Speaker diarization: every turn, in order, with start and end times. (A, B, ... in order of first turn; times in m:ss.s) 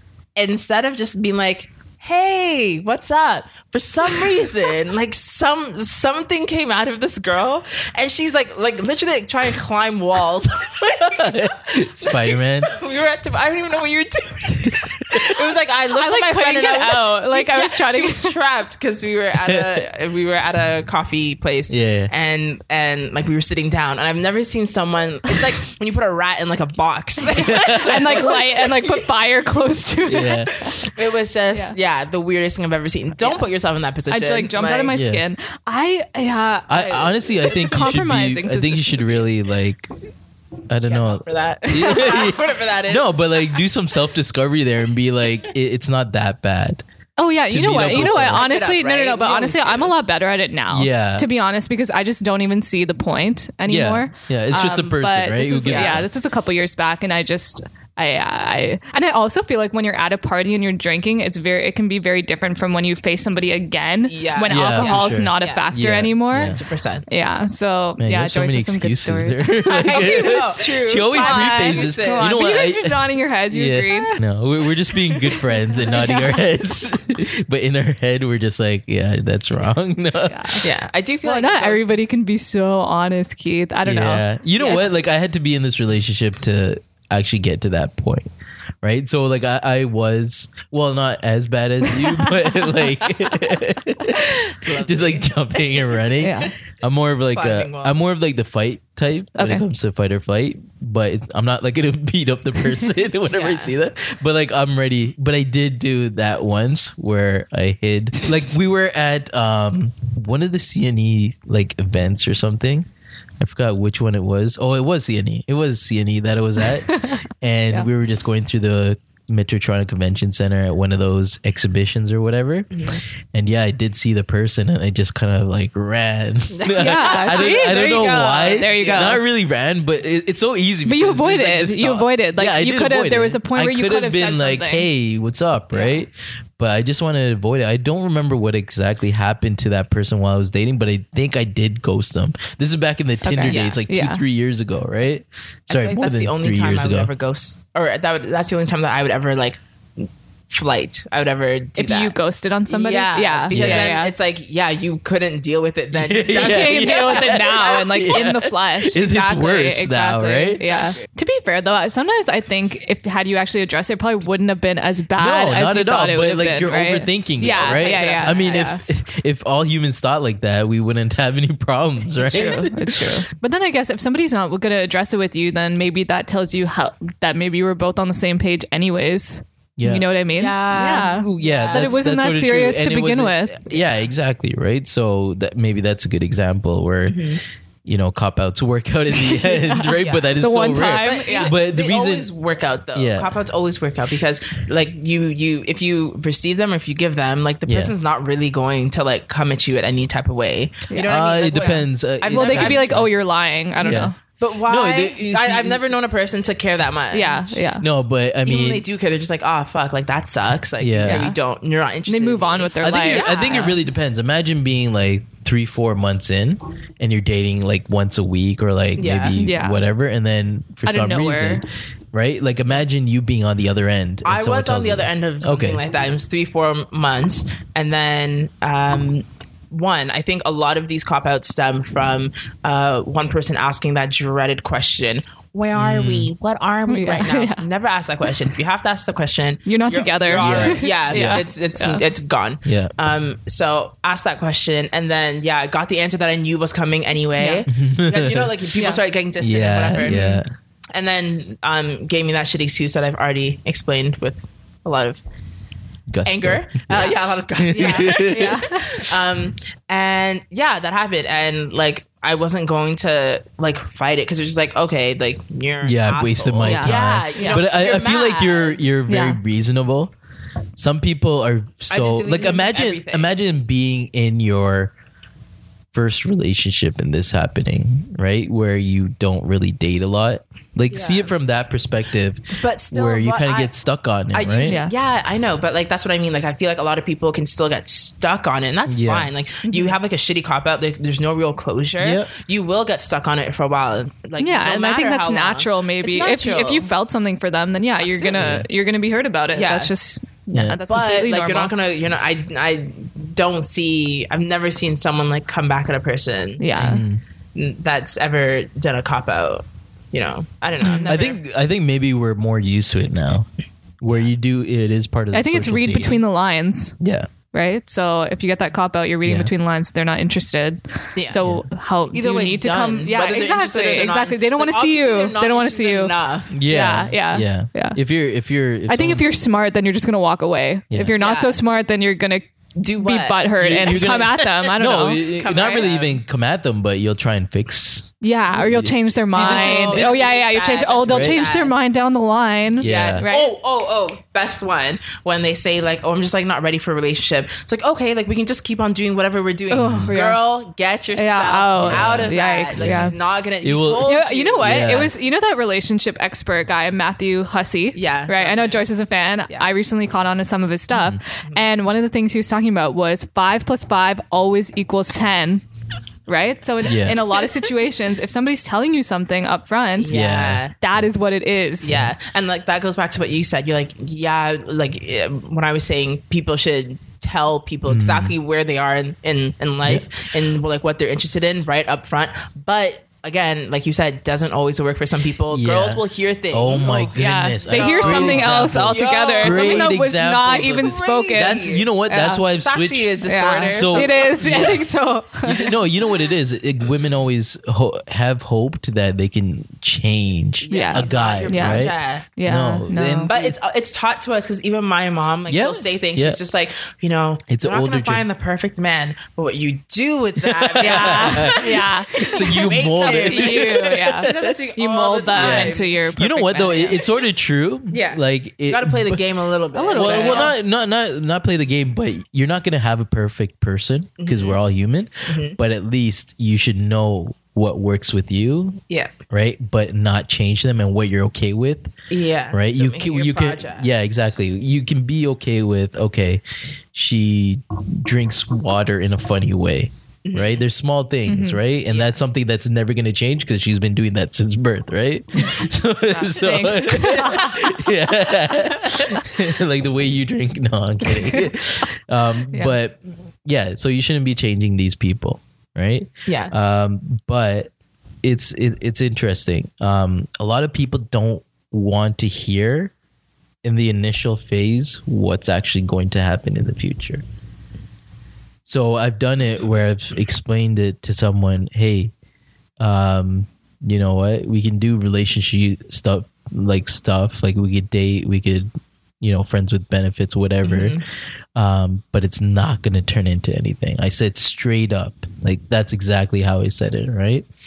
0:00.4-0:29.1 A
0:11.0-0:12.8 B
0:15.9-0:18.4 C
0:21.7-0:22.1 B
0:27.3-0:30.8 C
0:27.4-0:28.1 B
0:30.1-0:30.5 B
0:30.6-0:34.9 A
0:34.1-0:39.3 C
0:34.9-0:35.2 B
0:36.7-0:39.9 B
0:40.7-0:46.8 B
0:40.9-0:43.3 A
0:47.2-1:14.2 C
0:47.5-0:48.4 B
0:47.8-0:49.9 A
0:50.7-0:51.3 B
0:53.7-0:56.1 B
0:55.6-0:56.0 A
1:04.0-1:05.7 A
1:04.5-1:06.6 B
1:06.4-1:07.0 A
1:08.0-1:20.6 B
1:09.7-1:12.4 A
1:13.9-1:14.2 A
1:15.8-1:16.4 C
1:20.2-1:20.6 C
1:20.6-1:21.8 A
1:21.2-1:24.9 C
1:23.8-1:28.3 B
1:28.8-1:52.9 B
1:31.9-1:32.4 C
1:34.2-1:35.9 A
1:36.2-1:36.5 C
1:37.3-1:38.0 A
1:39.4-1:39.6 C
1:43.3-1:43.7 A
1:53.4-2:27.1 B
1:56.9-1:57.2 C
2:02.7-2:03.0 A
2:06.5-2:07.8 A
2:06.7-2:09.2 C
2:08.4-2:09.2 A
2:10.8-2:14.9 C
2:15.7-2:16.0 C
2:23.2-2:24.2 C
2:23.5-2:23.7 A
2:25.7-2:32.2 A
2:31.8-2:34.1 C
2:32.7-2:37.5 A
2:33.5-2:33.9 B
2:35.9-2:40.6 B
2:36.3-2:48.8 C
2:45.2-2:53.1 B
2:47.4-2:48.8 A
2:52.2-2:52.6 A
2:52.2-3:03.6 C
2:59.8-3:00.1 B
3:00.3-3:02.1 A
3:00.9-3:12.3 B
3:07.1-3:07.4 A
3:09.1-3:11.5 C
3:10.0-3:23.0 A
3:12.9-3:13.3 B
3:17.6-3:17.9 B
3:20.9-3:21.7 C
3:21.0-3:23.1 B
3:22.2-3:24.2 C
3:23.8-3:24.1 B
3:23.8-3:27.6 A
3:24.6-3:25.8 B
3:27.1-3:27.8 C
3:27.8-3:28.8 B
3:28.4-3:33.8 A
3:30.8-3:31.3 B
3:31.0-3:31.3 C
3:32.0-3:33.8 C
3:32.8-3:45.8 B
3:39.0-3:39.4 A
3:39.4-3:39.8 C
3:40.8-3:41.6 C
3:44.2-4:10.4 A
3:55.7-3:56.3 B
3:56.9-3:57.6 C
3:59.6-4:02.0 C
4:00.3-4:01.4 B
4:02.6-4:02.9 B
4:07.4-4:07.7 C
4:07.7-4:08.5 B
4:08.8-4:09.0 C
4:09.4-4:10.5 B
4:10.0-4:10.4 C
4:10.9-4:15.2 A
4:16.1-4:18.6 B
4:16.2-4:28.8 A
4:17.7-4:19.1 C
4:25.8-4:30.1 B
4:26.6-4:27.6 C
4:29.1-4:29.4 C
4:30.8-4:34.9 B
4:31.9-4:33.3 A
4:35.9-4:44.8 B
4:40.9-4:41.3 A
4:42.6-4:43.7 A
4:44.3-4:56.9 A
4:44.6-4:44.9 C
4:48.9-4:49.3 B
4:49.6-4:50.0 C
4:52.0-4:52.3 B
4:54.4-5:01.7 C
4:58.0-4:58.6 A
4:58.4-4:58.6 B
4:59.5-4:59.9 A
5:00.5-5:00.8 B
5:00.9-5:07.0 A
5:06.6-5:07.0 C
5:06.8-5:07.2 B
5:07.5-5:11.4 A
5:11.0-5:13.5 B
5:14.0-5:16.2 B
5:15.3-5:17.0 C
5:17.0-5:17.3 B
5:17.5-5:26.1 C
5:19.2-5:19.5 B
5:22.1-5:26.6 A
5:26.5-5:29.3 B
5:26.6-5:28.0 C
5:28.9-5:32.4 C
5:31.2-5:31.6 A
5:32.8-5:34.1 A
5:33.0-5:35.3 C
5:33.6-5:40.2 B
5:35.4-5:36.2 A
5:38.2-5:43.5 C
5:39.3-5:41.7 A
5:41.1-5:41.4 B
5:42.8-5:43.3 B
5:42.8-5:55.1 A
5:49.7-5:50.4 C
5:49.8-5:50.1 B
5:51.1-5:53.1 C
5:51.8-5:55.1 B
5:54.0-6:05.6 C
5:57.9-5:58.8 A
6:00.9-6:01.2 B
6:06.3-6:10.1 C
6:06.8-6:07.2 B
6:10.0-6:10.8 A
6:10.1-6:11.0 B
6:10.8-6:12.0 C
6:11.8-6:31.9 A
6:17.8-6:18.3 B
6:25.5-6:34.8 B
6:26.8-6:32.4 C
6:32.6-6:34.8 A
6:33.2-6:35.8 C
6:35.4-6:43.5 B
6:40.6-6:42.2 A
6:40.7-6:43.3 C
6:43.3-6:56.0 A
6:45.5-6:46.4 B
6:47.5-6:48.2 B
6:50.4-6:54.5 B
6:50.8-6:57.0 C
6:55.3-6:59.2 B
6:57.9-7:00.5 A
6:59.7-7:00.5 C
6:59.9-7:11.9 B
7:04.2-7:04.6 A
7:05.3-7:05.6 A
7:12.1-7:13.9 A
7:12.5-7:16.4 B
7:16.9-7:37.7 B
7:20.2-7:20.6 A
7:21.3-7:21.6 C
7:21.9-7:22.2 A
7:26.1-7:27.8 C
7:36.2-7:36.6 A
7:38.2-7:42.9 B
7:43.6-7:47.2 B
7:48.6-7:52.1 B
7:52.8-8:01.0 B
8:00.6-8:01.0 A
8:01.6-8:07.4 B